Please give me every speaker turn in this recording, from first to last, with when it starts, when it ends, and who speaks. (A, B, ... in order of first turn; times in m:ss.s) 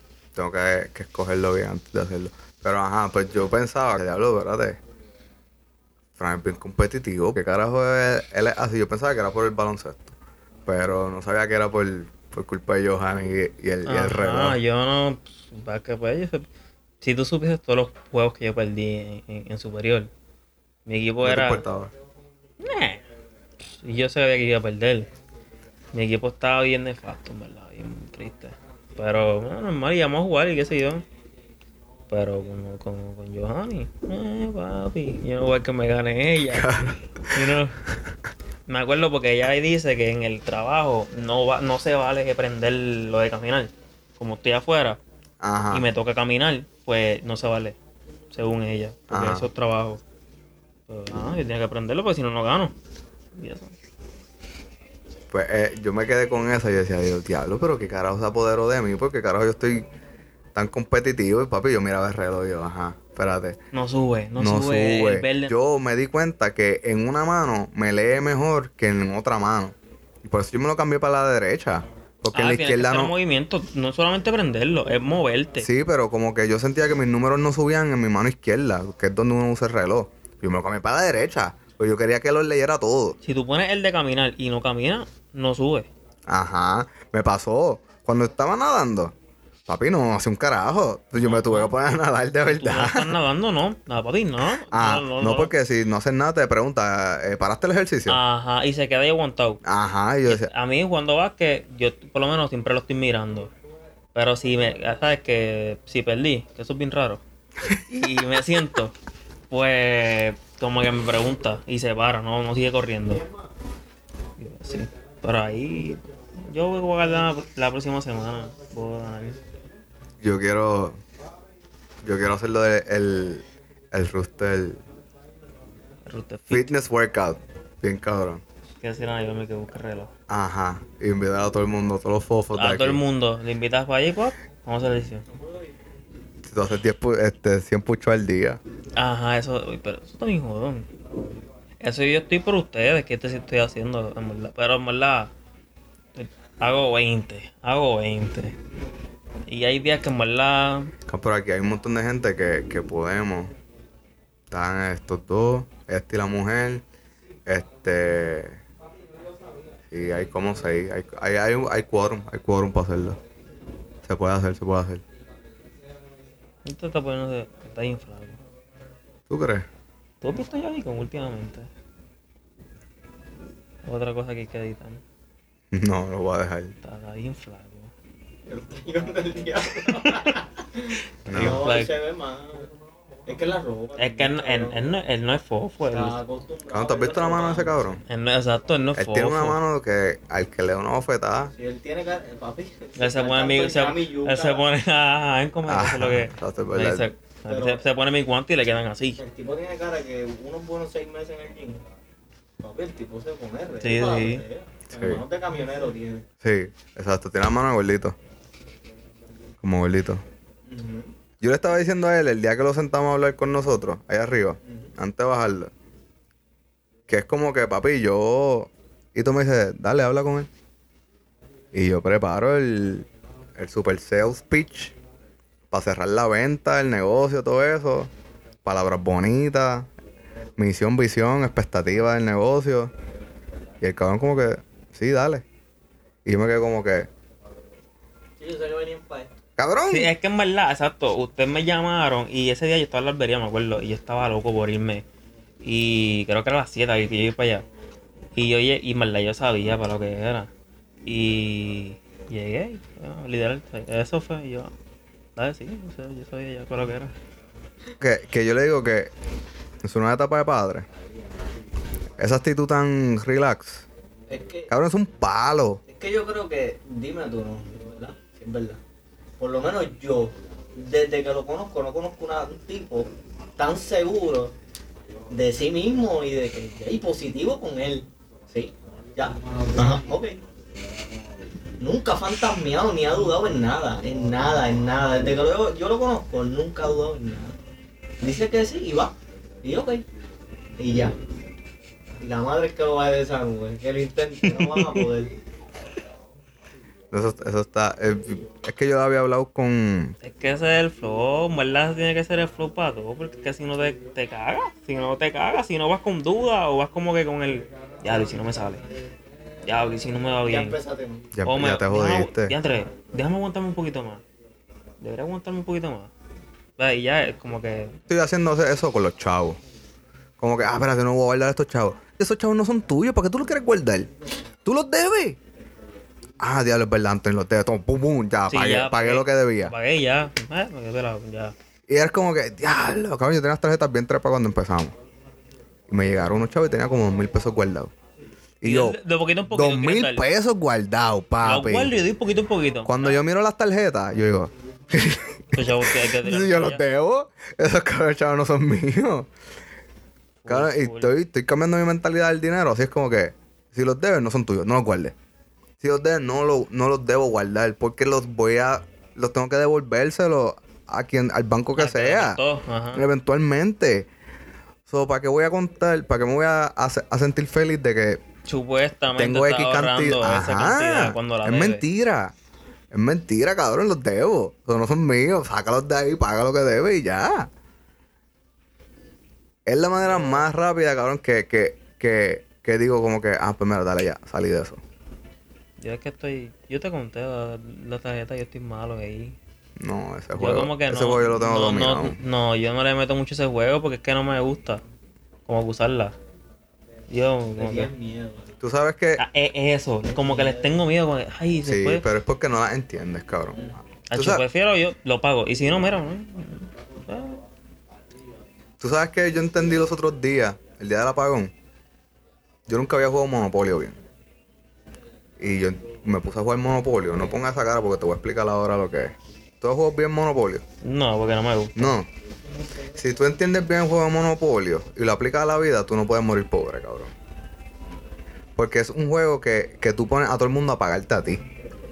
0:00.4-0:04.8 A
0:06.2-0:10.1 A
0:10.7-0:14.6 A
0:13.8-0:16.4 B
0:17.0-0:20.1 B
0:20.8-0:21.6 B
0:21.2-0:21.9 A
0:22.6-0:23.0 B
0:23.6-0:25.1 B
0:25.9-0:31.0 B
0:32.1-0:37.8 B
0:36.5-0:37.5 A
0:38.7-0:45.0 B
0:45.4-0:45.8 A
0:45.7-0:47.8 B
0:48.3-0:50.0 B
0:49.1-0:49.5 A
0:50.9-0:52.7 B
0:53.3-0:53.7 B
0:55.3-0:59.8 A
1:00.5-1:03.6 A
1:03.7-1:05.5 B
1:04.4-1:13.1 A
1:12.3-1:15.7 B
1:15.6-1:23.2 A
1:23.2-1:25.9 B
1:26.3-1:29.1 A
1:29.7-1:33.1 A
1:31.2-1:31.7 B
1:32.5-1:35.5 B
1:34.7-1:38.2 A
1:38.1-1:39.6 B
1:39.6-1:40.5 A
1:40.2-1:43.5 B
1:44.1-1:47.2 B
1:47.8-1:49.0 B
1:49.5-1:53.2 B
1:54.4-1:59.4 B
2:00.2-2:01.0 A
2:02.0-2:04.8 A
2:06.0-2:06.7 B
2:06.5-2:08.4 A
2:08.8-2:10.1 B
2:10.3-2:13.0 A
2:12.5-2:15.2 B
2:16.4-2:18.6 A
2:19.0-2:20.9 B
2:21.8-2:25.3 B
2:26.1-2:28.6 B
2:29.5-2:30.9 B
2:31.0-2:33.5 A
2:34.5-2:36.8 A
2:37.5-2:38.6 A
2:39.9-2:43.2 A
2:44.0-2:45.0 A
2:46.6-2:48.4 B
2:49.3-2:49.6 A
2:50.2-2:51.7 B
2:53.8-2:55.0 B
2:55.7-2:56.8 A
2:56.8-2:57.9 B
2:58.5-3:02.7 C
2:59.8-3:00.4 B
3:01.3-3:01.6 A
3:01.3-3:01.9 B
3:03.3-3:04.8 C
3:04.0-3:06.2 B
3:05.9-3:07.8 C
3:06.7-3:08.0 A
3:08.1-3:09.6 B
3:09.0-3:11.5 A
3:11.5-3:14.6 C
3:13.0-3:19.2 B
3:15.7-3:17.1 A
3:17.5-3:17.8 C
3:19.2-3:21.8 C
3:22.6-3:26.2 C
3:23.8-3:24.4 B
3:24.9-3:25.2 A
3:26.4-3:28.2 A
3:29.6-3:30.2 A
3:30.7-3:31.1 C
3:31.4-3:35.7 A
3:37.1-3:40.5 A
3:41.7-3:45.0 A
3:45.7-3:48.1 A
3:48.6-3:49.9 A
3:50.6-3:52.9 A
3:53.8-3:55.4 A
3:56.2-3:57.1 A
3:58.4-3:59.3 C
3:59.6-4:00.1 A
3:59.9-4:05.0 B
4:05.6-4:07.6 B
4:08.3-4:10.5 B
4:11.0-4:14.7 B
4:15.4-4:17.1 B
4:18.0-4:19.1 A
4:19.8-4:20.8 A
4:22.2-4:23.8 A
4:24.3-4:24.7 C
4:24.7-4:25.8 A
4:25.9-4:28.8 C
4:29.4-4:34.5 C
4:35.3-4:40.4 C
4:41.8-4:47.5 C
4:48.2-4:49.1 C
4:49.6-4:50.0 C
4:50.8-4:51.1 C
4:52.2-4:55.3 C
4:54.4-4:55.1 B
4:57.1-5:00.1 A
5:00.2-5:08.8 B
5:09.6-5:10.8 B
5:10.4-5:11.3 C
5:11.3-5:12.5 A
5:11.4-5:14.2 B
5:15.0-5:16.1 B
5:16.8-5:18.0 B
5:18.1-5:19.6 A
5:20.4-5:24.1 A
5:24.6-5:25.4 A
5:26.4-5:29.7 A
5:28.5-5:31.5 B
5:31.9-5:34.9 A
5:35.9-5:37.9 A
5:38.6-5:39.0 A
5:38.6-5:40.3 B
5:39.5-5:41.9 A
5:41.4-5:43.2 B
5:42.8-5:49.3 A
5:45.5-5:46.8 B
5:50.4-5:51.1 B
5:50.5-5:55.1 A
5:55.8-6:02.4 A
6:01.8-6:03.0 B
6:02.9-6:04.1 A
6:04.9-6:08.2 A
6:08.5-6:11.8 B
6:09.1-6:12.3 A
6:12.9-6:17.5 A
6:19.7-6:24.8 A
6:25.8-6:29.4 B
6:29.8-6:32.2 A
6:30.3-6:34.8 B
6:35.4-6:36.2 B
6:37.1-6:37.9 B
6:37.6-6:38.5 C
6:38.6-6:39.2 A
6:39.2-6:42.0 B
6:40.2-6:40.8 C
6:41.6-6:44.4 A
6:44.1-6:47.4 B
6:48.8-6:51.5 A
6:52.7-6:54.0 A
6:55.4-7:00.6 A
7:00.8-7:02.0 B
7:01.8-7:02.1 A
7:02.9-7:07.1 A
7:08.6-7:11.4 A